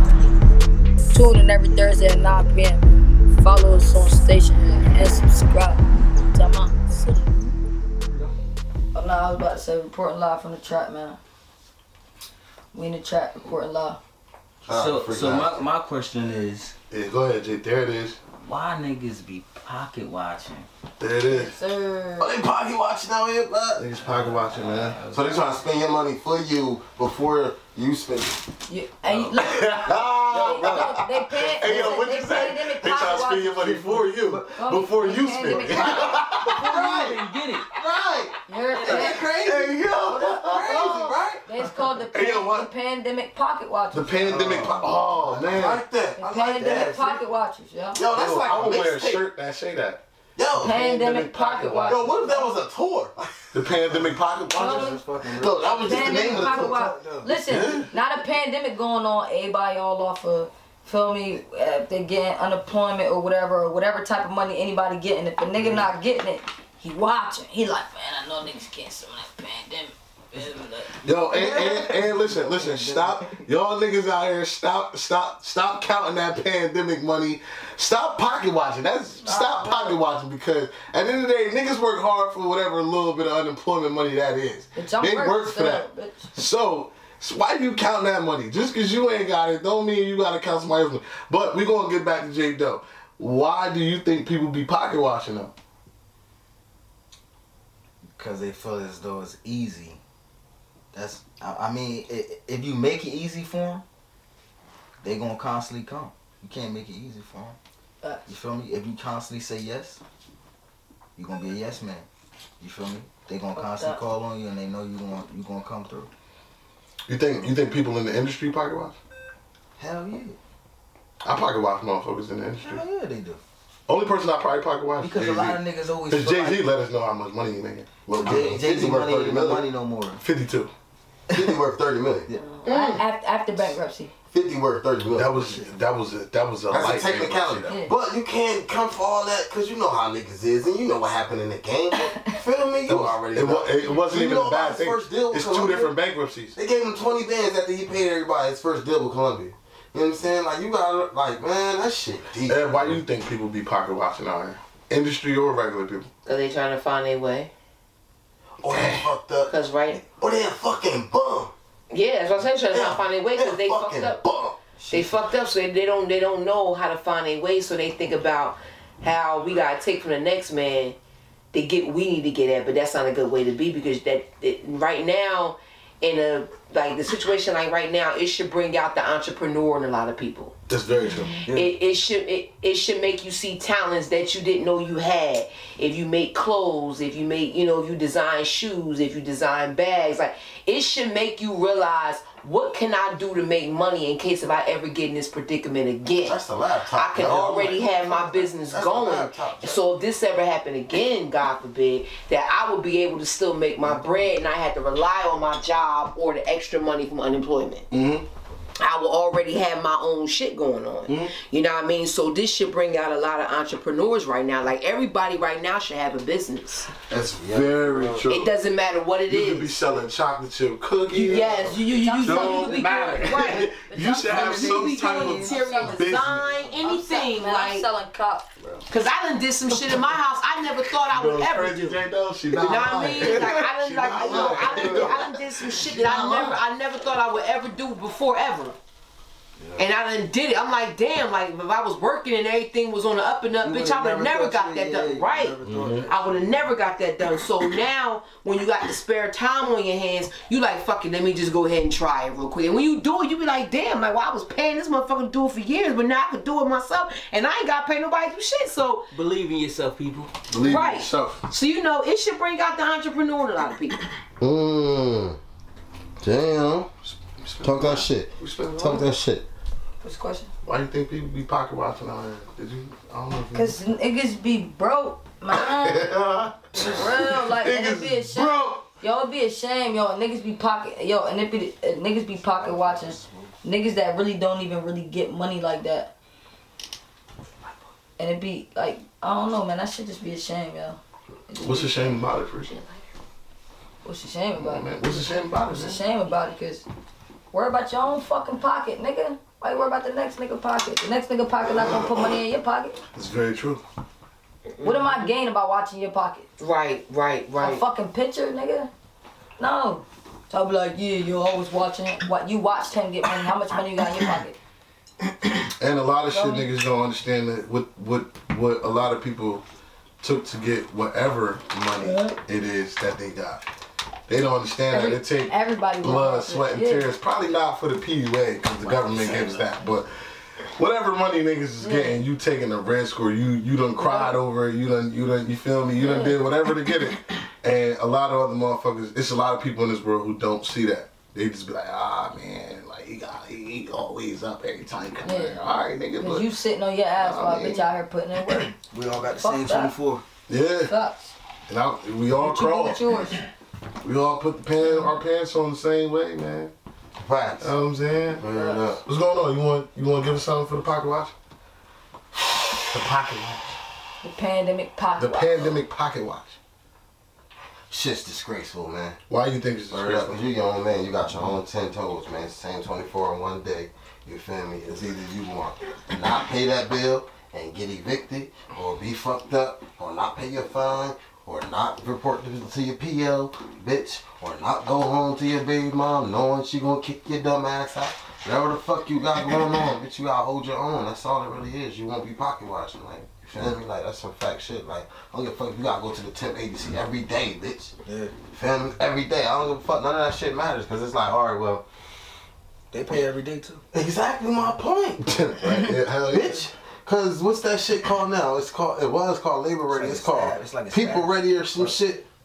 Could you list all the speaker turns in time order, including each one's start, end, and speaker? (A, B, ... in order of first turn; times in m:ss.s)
0:01.1-0:05.8 A
0:06.3-0:07.3 A
0:08.9-0:11.2 A
0:12.7-0:14.0 A
0:14.7-0:15.6 B
0:14.8-0:15.4 C
0:16.2-0:16.6 C
0:16.9-0:18.2 D
0:18.4-0:20.3 C
0:21.0-0:21.5 D
0:21.3-0:22.4 A
0:22.2-0:23.9 B
0:23.8-0:25.0 D
0:24.0-0:25.5 C
0:25.0-0:28.4 B
0:28.7-0:36.0 A
0:29.4-0:36.7 D
0:30.4-0:30.9 B
0:31.7-0:32.0 B
0:35.6-0:39.7 B
0:36.6-0:37.6 C
0:38.5-0:39.2 A
0:38.8-0:41.2 D
0:40.1-0:40.4 A
0:40.4-0:41.4 B
0:41.5-0:44.3 A
0:42.1-0:42.7 D
0:43.9-0:45.8 D
0:44.3-0:44.9 E
0:44.4-0:47.2 B
0:46.2-0:48.0 A
0:46.6-0:47.0 E
0:48.0-0:49.2 B
0:48.1-0:50.0 D
0:50.4-0:50.8 B
0:50.6-0:52.4 A
0:50.6-0:52.2 D
0:51.9-0:54.0 B
0:53.5-0:55.0 D
0:54.6-0:55.0 A
0:54.8-0:57.4 E
0:55.3-0:56.8 B
0:55.8-1:10.9 A
0:57.5-0:57.9 D
1:05.6-1:05.9 D
1:11.0-1:35.5 D
1:11.3-1:13.4 E
1:19.2-1:20.0 A
1:24.8-1:26.3 A
1:38.2-1:40.0 E
1:40.9-1:43.8 E
1:45.0-1:47.6 E
1:48.0-1:48.3 A
1:48.3-1:50.0 E
1:51.2-1:52.1 E
1:52.6-1:56.1 E
1:53.6-1:54.0 A
1:57.1-1:59.0 D
1:59.8-2:00.4 E
2:01.2-2:02.8 D
2:02.6-2:03.4 E
2:03.9-2:09.6 D
2:05.0-2:06.6 E
2:08.2-2:09.6 B
2:08.2-2:10.2 E
2:10.2-2:10.7 D
2:11.3-2:12.3 B
2:12.5-2:14.1 A
2:12.6-2:13.0 F
2:14.3-2:15.6 B
2:15.2-2:17.8 D
2:16.7-2:26.0 B
2:17.7-2:17.9 A
2:22.9-2:26.6 D
2:26.6-2:33.0 B
2:32.4-2:36.1 D
2:36.2-2:37.5 F
2:38.6-2:41.5 B
2:38.7-2:39.1 D
2:39.5-2:40.0 F
2:41.9-2:44.2 F
2:42.7-2:44.6 B
2:44.9-2:51.0 F
2:51.5-3:00.6 F
3:00.7-3:01.5 D
3:01.4-3:01.7 E
3:01.5-3:16.4 F
3:16.2-3:19.8 B
3:16.9-3:27.9 F
3:27.9-3:28.3 D
3:28.8-3:36.9 F
3:31.1-3:31.3 D
3:37.1-3:38.5 D
3:37.1-3:38.3 B
3:38.3-3:39.8 F
3:39.3-3:46.7 D
3:41.1-3:43.7 F
3:41.7-3:46.1 A
3:44.4-3:47.9 F
3:46.8-3:48.5 A
3:48.9-3:52.0 F
3:51.1-3:56.6 D
3:52.5-3:58.8 F
3:59.8-4:19.1 F
4:03.6-4:06.6 E
4:05.7-4:06.1 D
4:19.1-4:20.3 C
4:20.5-4:21.4 D
4:20.6-4:24.0 F
4:24.4-4:25.4 B
4:26.2-4:26.9 B
4:27.2-4:29.1 D
4:27.6-4:29.5 B
4:30.0-4:30.5 A
4:30.6-4:33.8 D
4:33.5-4:36.1 A
4:35.5-4:38.8 D
4:36.8-4:46.1 A
4:42.6-4:43.5 E
4:48.2-4:51.0 A
4:51.5-4:52.8 D
4:51.6-4:51.8 A
4:52.7-4:53.0 F
4:54.0-4:55.0 A
4:54.6-4:56.0 D
4:55.5-4:56.9 A
4:57.5-5:03.0 A
5:01.8-5:02.3 D
5:03.1-5:03.8 D
5:04.8-5:05.3 F
5:04.8-5:06.5 A
5:06.6-5:07.8 F
5:07.6-5:08.9 A
5:09.6-5:14.6 A
5:15.8-5:19.6 D
5:16.3-5:16.7 A
5:20.2-5:23.6 D
5:22.0-5:22.4 A
5:24.3-5:30.1 D
5:24.9-5:27.1 A
5:29.0-5:29.3 E
5:30.8-5:46.5 D
5:31.8-5:32.2 A
5:34.0-5:34.4 A
5:36.0-5:36.4 A
5:45.2-5:45.6 A
5:46.2-5:48.8 A
5:47.2-5:47.8 D
5:48.9-5:50.2 E
5:49.4-5:49.9 A
5:50.5-5:50.9 D
5:50.8-5:51.3 A
5:51.7-5:53.0 D
5:52.4-5:53.4 A
5:54.0-5:56.7 D
5:54.8-5:55.2 A
5:57.2-5:57.7 B
5:57.6-5:58.4 D
5:58.4-5:59.0 B
5:58.5-5:58.9 A
5:59.0-6:01.3 D
6:02.9-6:03.7 D
6:04.2-6:05.8 A
6:05.2-6:06.6 D
6:07.9-6:09.2 B
6:09.3-6:10.4 D
6:09.9-6:37.9 B
6:38.1-6:38.3 E
6:38.5-6:41.8 B
6:42.9-6:43.8 E
6:43.9-6:45.3 B
6:45.2-6:46.7 D
6:46.3-6:52.2 B
6:49.9-6:52.0 E